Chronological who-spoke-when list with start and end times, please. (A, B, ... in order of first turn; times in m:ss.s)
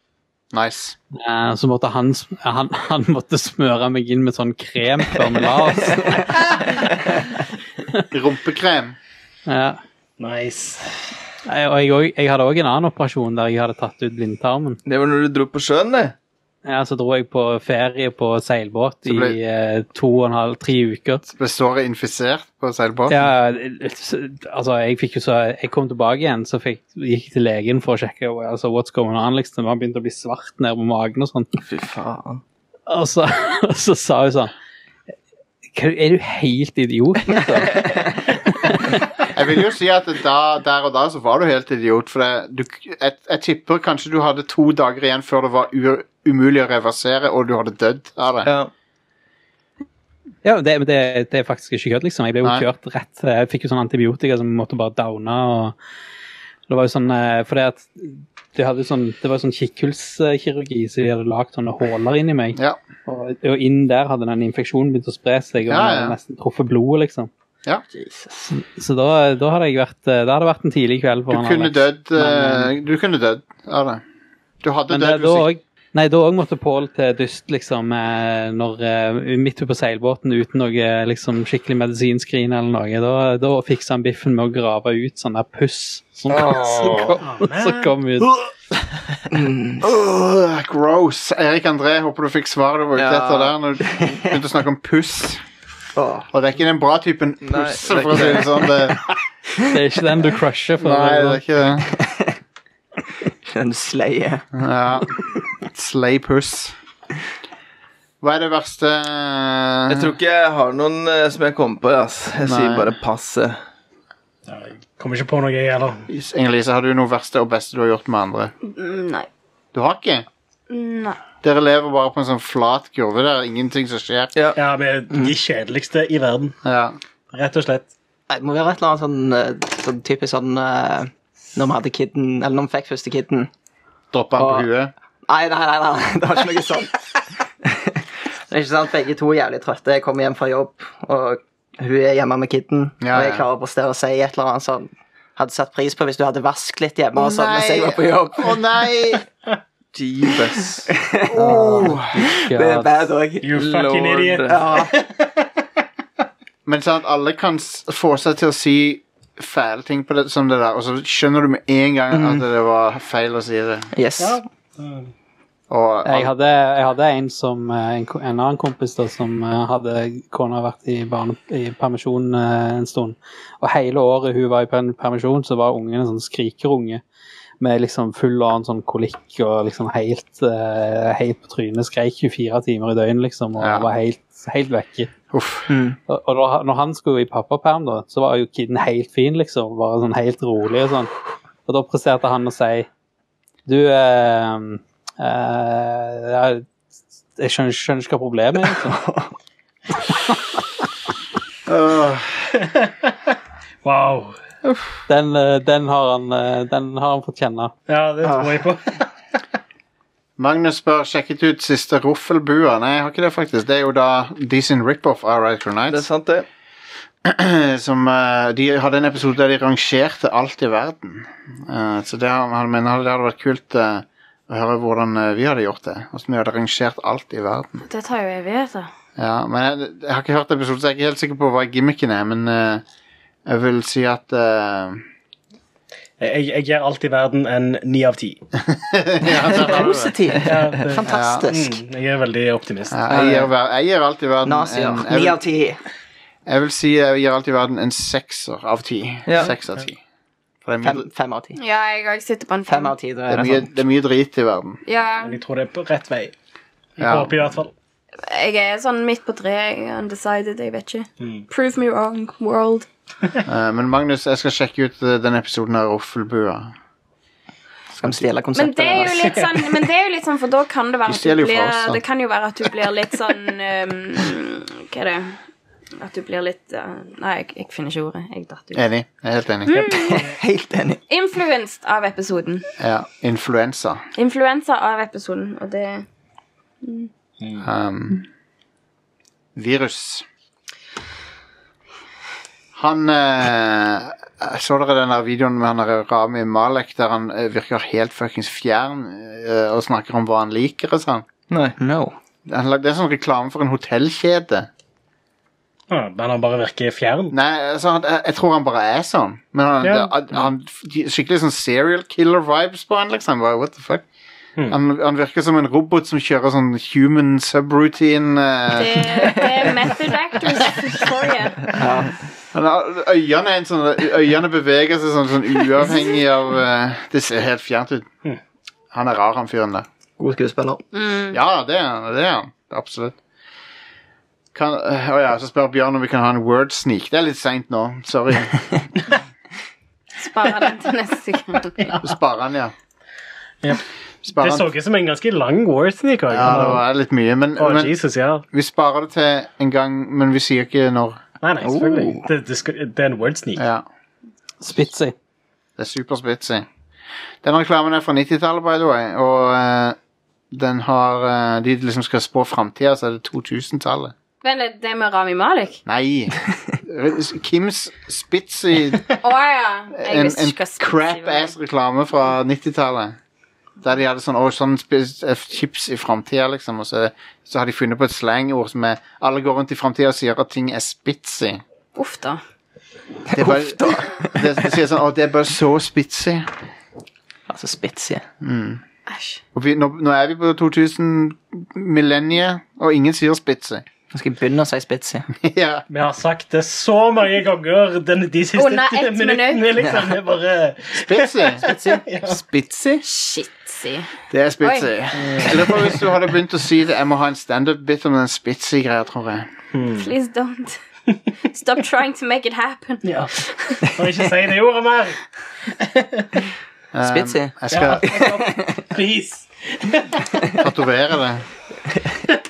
0:00.5-0:01.0 A
0:01.1-0:06.8 B
0:08.1-0:09.0 A
0:09.5-0:09.8 B
0:10.2-0:10.9 C
0:11.4-0:14.8 B
0:14.8-0:16.1 D
0:16.6-0:21.2 B
0:19.0-0:19.4 A
0:21.3-0:23.3 A
0:23.1-0:31.6 B
0:31.6-0:32.4 D
0:32.9-0:34.5 B
0:35.7-0:38.1 B
0:38.6-0:38.9 B
0:39.3-0:48.5 A
0:48.4-0:48.7 D
0:50.4-0:55.7 B
0:56.7-1:07.3 B
1:05.7-1:06.2 A
1:07.9-1:08.5 E
1:08.5-1:12.7 B
1:11.3-1:14.0 A
1:14.6-1:15.5 A
1:14.9-1:28.3 B
1:26.5-1:27.1 A
1:27.2-1:27.9 C
1:29.3-1:29.9 E
1:29.8-1:35.4 A
1:32.9-1:33.5 D
1:34.0-1:34.3 E
1:35.9-1:36.3 E
1:36.3-1:39.1 A
1:37.4-1:38.7 D
1:39.6-1:41.4 B
1:40.8-1:41.9 A
1:41.9-1:42.4 E
1:43.3-1:44.4 E
1:44.5-1:46.7 A
1:48.2-1:50.1 A
1:49.9-1:53.6 D
1:52.4-1:52.9 A
1:54.5-1:56.0 C
1:56.1-1:58.5 A
1:58.6-1:59.3 F
1:59.7-2:00.3 A
2:00.7-2:01.2 F
2:01.4-2:04.3 A
2:04.6-2:06.6 C
2:06.6-2:07.0 A
2:07.3-2:07.9 C
2:08.3-2:13.5 E
2:14.1-2:14.9 A
2:14.4-2:14.7 E
2:15.2-2:28.6 E
2:23.0-2:23.4 A
2:27.2-2:29.2 A
2:29.9-2:30.9 D
2:30.9-2:33.5 E
2:31.3-2:32.0 A
2:31.4-2:32.9 B
2:33.4-2:35.2 C
2:33.5-2:34.6 D
2:34.5-2:35.0 E
2:36.6-2:43.9 A
2:42.1-2:42.4 E
2:43.9-2:44.4 E
2:44.2-2:45.1 C
2:45.7-2:46.3 A
2:46.0-2:57.0 B
2:57.6-3:05.1 B
3:03.6-3:03.9 A
3:05.3-3:05.7 A
3:05.7-3:06.0 E
3:06.1-3:11.1 B
3:11.6-3:12.9 B
3:13.6-3:16.6 B
3:17.4-3:19.0 B
3:21.6-3:22.5 A
3:22.6-3:24.4 C
3:25.1-3:27.7 B
3:27.9-3:29.1 C
3:30.4-3:36.0 A
3:35.9-3:36.5 D
3:37.2-3:47.8 A
3:47.9-3:48.9 F
3:49.2-3:52.8 A
3:53.5-3:55.0 A
3:56.2-3:58.4 C
3:58.6-4:00.1 A
3:59.5-4:01.8 E
3:59.7-4:03.1 C
4:01.0-4:01.5 A
4:02.9-4:05.4 A
4:03.1-4:03.5 E
4:04.4-4:05.8 E
4:06.5-4:10.0 A
4:09.3-4:09.5 D
4:10.6-4:11.0 A
4:10.8-4:11.5 E
4:11.5-4:12.9 F
4:12.6-4:13.7 E
4:13.3-4:14.8 A
4:14.8-4:15.4 F
4:15.2-4:16.3 C
4:17.0-4:17.7 C
4:17.0-4:17.4 A
4:18.2-4:22.9 F
4:23.4-4:26.7 A
4:28.0-4:29.4 E
4:28.5-4:35.4 F
4:29.0-4:29.6 C
4:31.0-4:32.0 A
4:36.0-4:38.8 F
4:38.7-4:39.7 A
4:39.7-4:40.2 F
4:39.8-4:40.4 C
4:39.9-4:41.0 E
4:41.1-4:42.6 F
4:42.8-4:44.0 A
4:44.2-4:46.0 F
4:46.8-4:47.1 F
4:47.4-4:47.6 C
4:47.6-4:48.2 A
4:49.6-4:50.2 A
4:52.7-5:01.2 A
5:01.5-5:01.8 D
5:01.8-5:02.2 E
5:02.5-5:04.7 A
5:05.9-5:07.3 C
5:07.3-5:14.0 A
5:09.8-5:10.1 C
5:14.7-5:19.3 A
5:18.7-5:21.8 F
5:21.7-5:22.2 E
5:22.5-5:28.1 A
5:28.9-5:29.8 A
5:30.2-5:30.8 E
5:30.9-5:31.4 F
5:31.3-5:33.2 A
5:34.5-5:38.6 A
5:40.2-5:41.9 F
5:42.0-5:42.7 A
5:44.2-5:44.7 A
5:44.3-5:46.9 C
5:46.3-5:47.9 A
5:47.6-5:48.4 C
5:48.5-5:51.2 A
5:51.4-5:53.6 C
5:51.6-5:52.2 E
5:53.6-5:53.8 A
5:54.6-5:55.1 B
5:55.8-5:56.6 A
5:57.4-6:00.0 A
6:00.5-6:04.1 A
6:04.4-6:05.8 F
6:05.8-6:09.1 A
6:09.2-6:11.5 F
6:09.9-6:13.2 A
6:13.8-6:21.6 A
6:21.9-6:22.4 F
6:23.3-6:24.7 E
6:23.3-6:26.5 A
6:27.5-6:28.2 E
6:28.4-6:28.8 A
6:29.1-6:29.4 F
6:29.5-6:33.8 A
6:34.1-6:35.3 E
6:35.4-6:35.8 A
6:35.9-6:42.4 C
6:38.6-6:39.7 F
6:39.8-6:40.1 E
6:40.9-6:41.7 A
6:41.6-6:42.0 E
6:42.2-6:43.0 A
6:43.0-6:44.1 F
6:44.3-6:49.5 A
6:44.6-6:44.9 F
6:45.2-6:46.0 C
6:49.7-6:50.1 C
6:49.9-6:50.8 F
6:51.5-6:53.9 F
6:53.0-6:53.4 C
6:53.9-6:56.3 C
6:56.9-6:58.2 A
6:57.0-6:58.9 E
6:57.7-7:00.3 C
7:00.6-7:01.4 A